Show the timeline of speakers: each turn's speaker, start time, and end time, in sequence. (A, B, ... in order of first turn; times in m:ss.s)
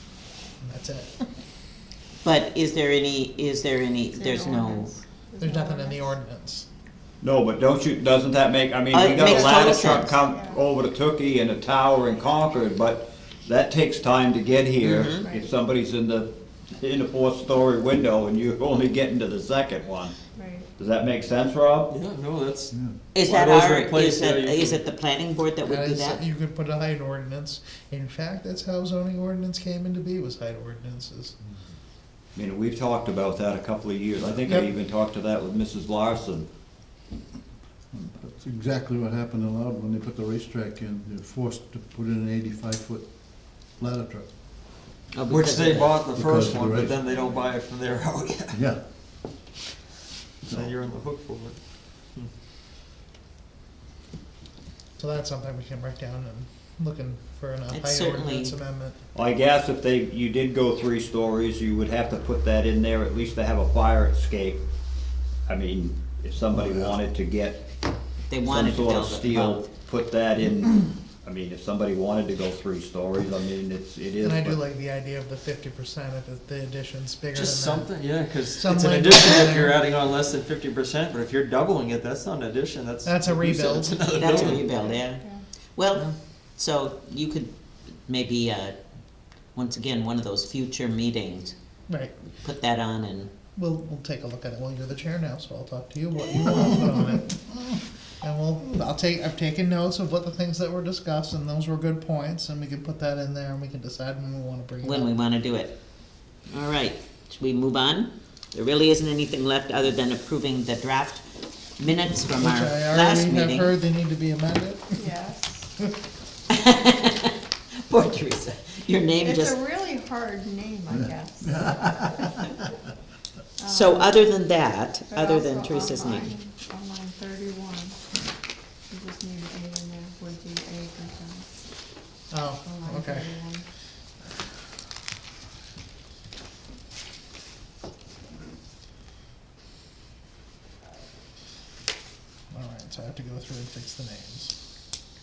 0:00.6-0:01.2 A
0:02.2-0:04.9 B
0:04.1-0:06.2 C
0:05.4-0:06.7 A
0:07.2-0:20.2 D
0:08.9-0:10.2 B
0:09.2-0:09.6 C
0:10.2-0:10.6 C
0:14.8-0:15.2 B
0:20.3-0:20.7 C
0:20.8-0:21.9 D
0:21.9-0:24.8 E
0:23.1-0:26.2 B
0:25.6-0:31.3 A
0:32.4-0:36.5 D
0:37.9-0:44.3 F
0:45.1-0:46.0 B
0:45.3-0:48.6 E
0:46.1-0:47.0 F
0:48.5-0:48.8 F
0:50.4-0:51.6 E
0:55.0-0:59.0 A
0:57.7-0:58.5 B
0:59.1-1:04.6 D
1:05.5-1:07.6 D
1:08.3-1:09.7 B
1:08.4-1:14.6 D
1:14.2-1:17.9 A
1:17.3-1:24.7 E
1:18.5-1:19.8 A
1:23.0-1:24.0 A
1:24.1-1:25.2 B
1:24.8-1:25.4 C
1:25.8-1:28.8 B
1:29.5-1:31.5 B
1:31.9-1:32.1 A
1:32.4-1:33.3 B
1:33.6-1:45.1 A
1:36.3-1:36.6 B
1:44.8-1:45.8 B
1:46.5-1:51.2 B
1:51.8-1:53.7 B
1:52.4-1:55.1 A
1:55.0-1:55.7 C
1:56.5-1:59.6 B
1:59.2-2:02.1 C
2:01.5-2:02.3 F
2:03.6-2:04.3 C
2:03.7-2:06.3 B
2:05.1-2:08.0 C
2:08.9-2:11.6 C
2:12.3-2:13.4 A
2:12.6-2:13.6 C
2:22.5-2:24.6 A